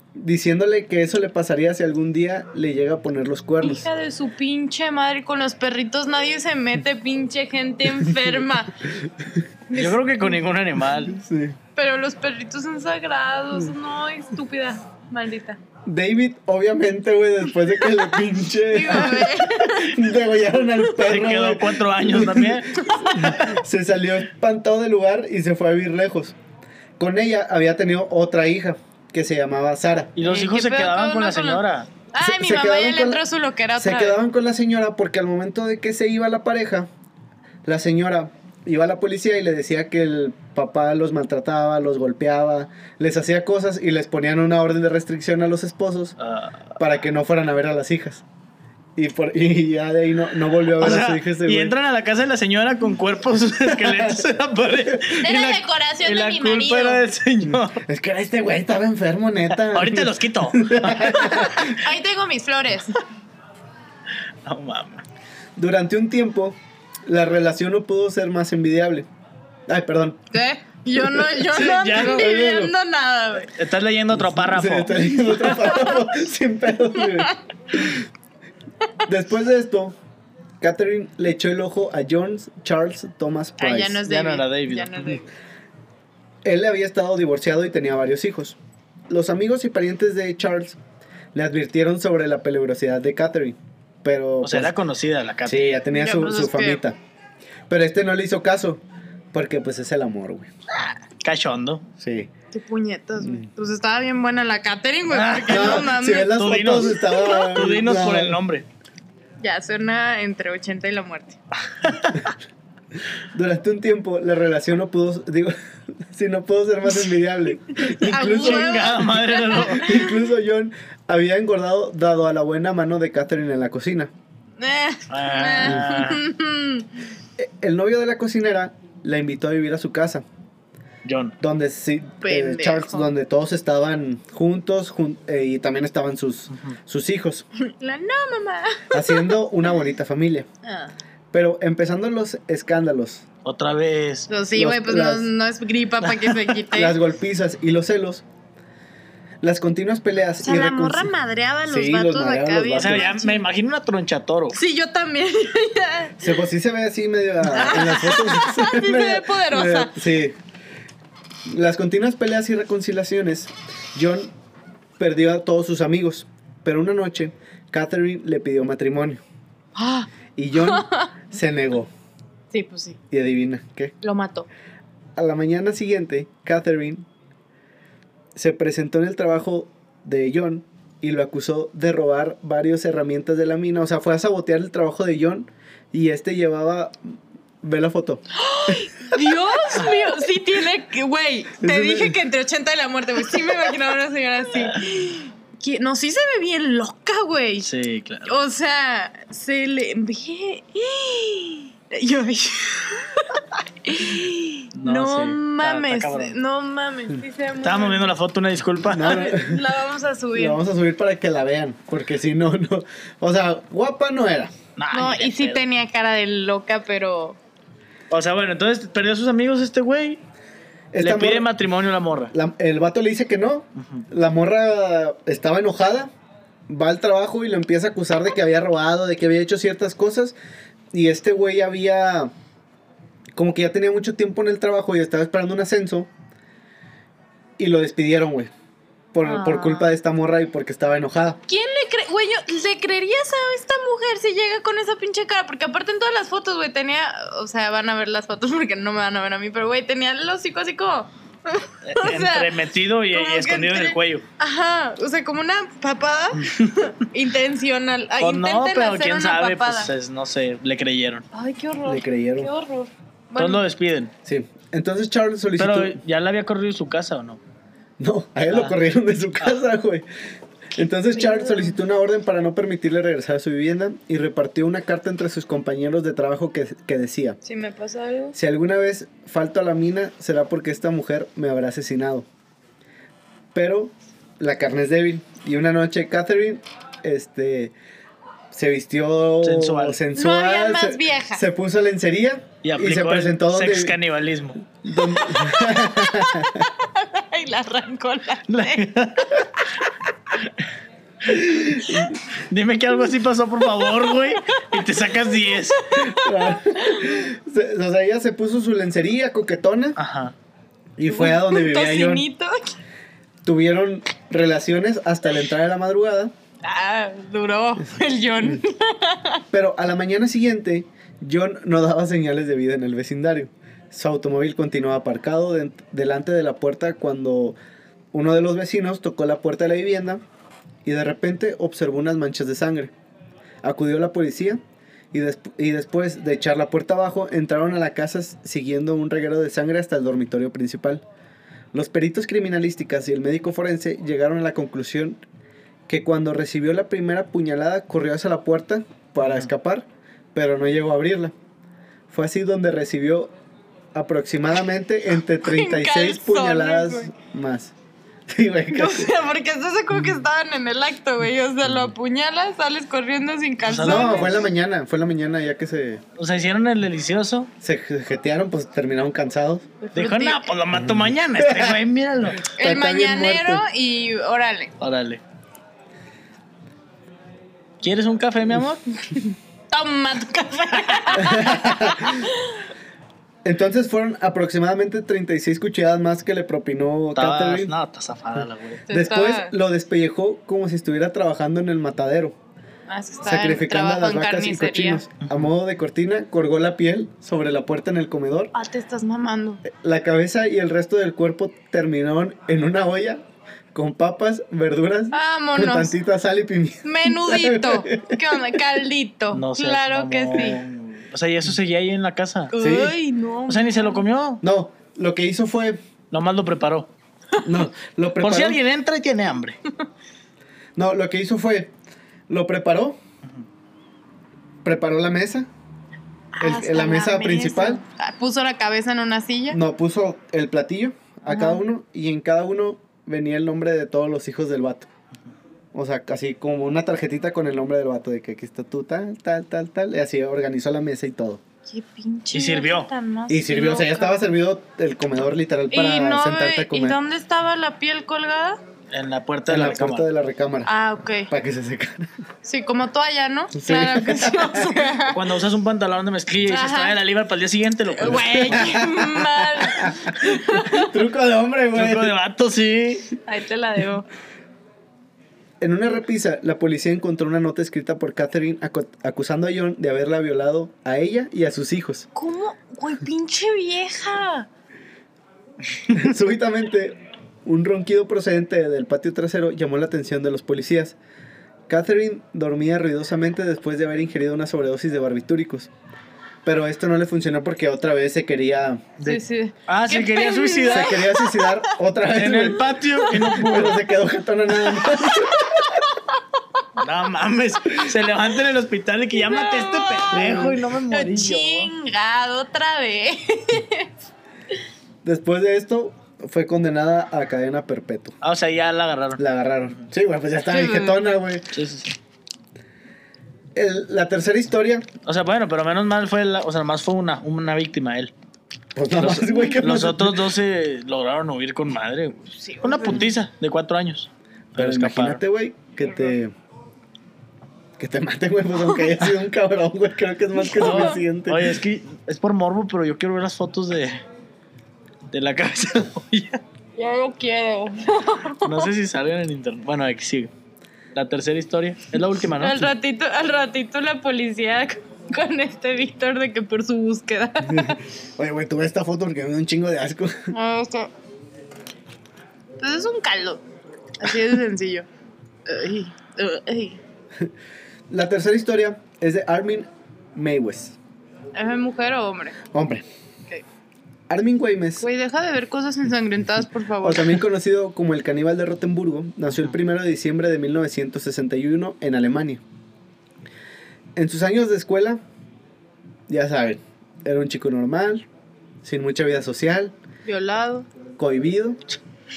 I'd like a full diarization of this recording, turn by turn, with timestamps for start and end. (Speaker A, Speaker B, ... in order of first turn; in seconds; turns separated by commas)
Speaker A: 0.1-3.9, Speaker B: 3.6-8.8, Speaker A: 9.1-9.4, Speaker B: 9.7-10.0, Speaker C: 9.7-11.2, Speaker A: 11.1-11.6, Speaker B: 11.8-15.6, Speaker A: 15.9-26.4, Speaker B: 18.7-20.0, Speaker C: 21.0-23.3, Speaker B: 22.8-23.5, Speaker A: 27.0-30.1, Speaker C: 30.2-31.9, Speaker B: 30.2-34.2, Speaker A: 32.2-33.2, Speaker A: 33.8-36.9, Speaker A: 37.6-46.2, Speaker C: 46.2-46.7, Speaker A: 46.8-48.2, Speaker A: 49.0-51.7, Speaker C: 50.8-57.8, Speaker A: 53.7-54.2, Speaker B: 55.1-57.0, Speaker A: 57.4-61.7, Speaker C: 59.6-61.7, Speaker B: 61.2-63.0, Speaker C: 64.5-65.0, Speaker A: 65.6-69.1, Speaker A: 69.7-70.2, Speaker B: 70.3-73.5, Speaker A: 71.0-72.7, Speaker C: 71.5-72.4, Speaker C: 73.5-75.7, Speaker A: 74.3-78.1, Speaker B: 75.5-76.0, Speaker A: 79.1-80.0, Speaker A: 80.6-84.0, Speaker B: 83.6-85.3, Speaker C: 84.1-85.1, Speaker A: 86.4-88.6, Speaker A: 89.1-90.8, Speaker A: 91.3-94.7, Speaker C: 94.4-95.8, Speaker A: 95.5-97.0, Speaker B: 95.9-96.8, Speaker A: 97.7-98.8, Speaker A: 99.3-100.5, Speaker C: 101.2-101.8, Speaker A: 102.0-102.3, Speaker B: 102.5-107.6, Speaker C: 105.1-108.7, Speaker A: 105.5-108.4, Speaker B: 109.4-111.4, Speaker C: 111.8-112.3, Speaker A: 113.3-118.9, Speaker B: 117.8-120.1, Speaker C: 118.0-119.9, Speaker A: 119.6-124.1, Speaker B: 124.6-126.9, Speaker C: 125.1-126.2, Speaker A: 127.4-130.2, Speaker C: 131.1-131.3, Speaker A: 131.4-137.4, Speaker B: 132.2-133.1, Speaker B: 137.6-139.4, Speaker A: 138.9-140.5, Speaker B: 140.6-140.9, Speaker A: 141.3-143.2, Speaker C: 143.4-144.3, Speaker B: 144.3-147.0, Speaker A: 144.6-145.3, Speaker A: 146.7-148.2, Speaker A: 149.4-151.1, Speaker B: 150.4-153.4, Speaker A: 151.6-153.1, Speaker C: 152.8-154.6, Speaker B: 154.5-156.3, Speaker A: 156.2-160.4, Speaker B: 157.4-160.0, Speaker A: 161.5-164.3, Speaker A: 165.0-169.2, Speaker B: 169.8-171.1, Speaker A: 170.3-171.9, Speaker B: 172.5-173.0, Speaker A: 173.1-173.9, Speaker B: 174.0-174.5, Speaker A: 175.2-177.1, Speaker A: 178.3-190.0, Speaker B: 188.3-197.7, Speaker A: 191.6-192.2, Speaker C: 197.6-198.3, Speaker B: 198.2-208.1, Speaker C: 204.8-206.4, Speaker C: 207.6-209.3, Speaker A: 208.8-209.7, Speaker B: 209.0-210.6, Speaker A: 210.3-214.6, Speaker C: 214.8-215.6, Speaker B: 214.9-217.4, Speaker C: 218.1-220.2, Speaker A: 220.9-221.5, Speaker C: 221.0-222.3, Speaker A: 222.3-226.1, Speaker C: 223.8-224.0, Speaker A: 226.7-230.3, Speaker A: 230.9-232.3, Speaker A: 233.3-236.1, Speaker A: 237.6-238.5, Speaker A: 239.1-241.4, Speaker B: 239.2-239.9, Speaker B: 241.5-252.5, Speaker C: 251.8-254.2, Speaker B: 253.1-259.9, Speaker C: 258.2-261.3, Speaker B: 261.3-263.6, Speaker A: 261.9-262.5, Speaker C: 263.4-264.1, Speaker A: 264.2-266.0, Speaker C: 265.6-267.4, Speaker A: 268.0-270.1, Speaker C: 268.5-268.8, Speaker A: 270.8-277.4, Speaker B: 271.1-271.8, Speaker B: 277.4-278.4, Speaker A: 278.3-282.3, Speaker A: 283.5-287.7, Speaker A: 288.5-294.0, Speaker C: 289.4-290.0, Speaker B: 290.1-291.4, Speaker C: 292.6-294.6, Speaker A: 294.8-296.7, Speaker B: 295.2-299.4, Speaker C: 298.5-299.5, Speaker A: 301.3-302.0, Speaker C: 301.3-305.9, Speaker B: 303.8-305.1, Speaker B: 305.8-307.2, Speaker A: 306.0-310.0, Speaker C: 310.0-310.3, Speaker A: 311.0-312.3, Speaker B: 311.1-312.8, Speaker A: 313.4-316.3, Speaker B: 316.6-319.4, Speaker A: 319.5-327.6, Speaker A: 328.1-330.2, Speaker A: 330.8-332.9, Speaker A: 333.6-334.6, Speaker A: 335.1-341.0, Speaker A: 341.7-345.2, Speaker A: 345.9-351.3, Speaker C: 349.2-349.5, Speaker A: 352.1-353.3, Speaker A: 353.9-357.7, Speaker B: 355.4-357.1, Speaker A: 358.3-359.1, Speaker B: 358.7-364.4, Speaker C: 363.7-364.4, Speaker A: 363.8-366.0, Speaker C: 366.2-367.5, Speaker A: 367.6-369.7, Speaker B: 369.8-370.5, Speaker C: 369.9-372.4, Speaker A: 371.4-371.8, Speaker A: 372.5-373.6, Speaker B: 372.6-374.7, Speaker C: 374.8-375.2, Speaker C: 377.8-378.8, Speaker B: 379.1-382.6, Speaker A: 381.2-382.2, Speaker A: 383.4-387.7, Speaker C: 387.2-388.8, Speaker A: 388.4-392.4, Speaker B: 388.9-389.5, Speaker B: 392.9-395.0, Speaker A: 393.2-398.5, Speaker B: 398.5-399.6, Speaker A: 399.6-408.2, Speaker B: 405.1-405.9, Speaker B: 406.8-410.6, Speaker C: 409.3-412.5, Speaker B: 412.5-414.0, Speaker A: 412.6-412.9, Speaker C: 413.5-414.4, Speaker A: 414.4-415.8, Speaker C: 416.1-416.9, Speaker A: 417.4-418.6, Speaker C: 418.2-419.6, Speaker A: 420.8-421.7, Speaker A: 422.3-423.0, Speaker A: 424.6-425.5, Speaker B: 426.4-429.6, Speaker A: 426.4-427.8, Speaker A: 429.5-434.9, Speaker B: 431.3-431.6, Speaker A: 435.7-441.4, Speaker B: 441.7-444.3, Speaker C: 442.3-442.9, Speaker A: 443.3-447.0, Speaker B: 445.7-448.6, Speaker C: 448.9-450.1, Speaker A: 449.5-450.7, Speaker B: 450.7-451.3, Speaker A: 451.3-452.1, Speaker B: 452.4-455.3, Speaker A: 453.5-454.8, Speaker C: 455.1-458.8, Speaker B: 456.5-457.0, Speaker B: 457.9-460.9, Speaker A: 458.1-462.1, Speaker C: 461.7-463.1, Speaker B: 463.3-464.1, Speaker A: 465.6-472.1, Speaker B: 472.1-474.5, Speaker A: 475.9-481.0, Speaker A: 481.7-485.7, Speaker A: 486.4-489.0, Speaker B: 489.0-491.7, Speaker C: 489.0-491.1, Speaker A: 490.7-495.6, Speaker C: 492.1-493.9, Speaker B: 493.0-493.5, Speaker B: 494.8-496.2, Speaker C: 496.8-501.7, Speaker B: 499.1-503.9, Speaker A: 500.1-500.6, Speaker A: 505.0-508.2, Speaker C: 508.2-509.2, Speaker A: 509.2-511.5, Speaker B: 510.5-511.0, Speaker C: 511.5-511.9, Speaker A: 513.5-514.9, Speaker C: 515.0-518.1, Speaker A: 518.8-520.3, Speaker C: 519.0-525.2, Speaker B: 522.3-523.1, Speaker A: 524.5-526.3, Speaker A: 527.8-531.6, Speaker B: 530.5-531.0, Speaker C: 530.5-534.0, Speaker C: 535.1-536.4, Speaker B: 536.8-538.7, Speaker C: 538.4-540.3, Speaker C: 541.0-542.7, Speaker B: 542.4-547.8, Speaker A: 547.5-550.3, Speaker B: 550.3-550.9, Speaker B: 552.6-553.4, Speaker B: 554.0-554.9, Speaker B: 555.5-556.8, Speaker A: 557.9-560.8, Speaker B: 561.4-562.4, Speaker A: 562.5-562.9, Speaker A: 564.1-564.9, Speaker B: 564.8-567.2, Speaker A: 566.8-572.4, Speaker A: 574.0-575.0, Speaker A: 576.1-578.1, Speaker A: 578.6-579.7, Speaker B: 580.1-580.7, Speaker A: 581.0-581.6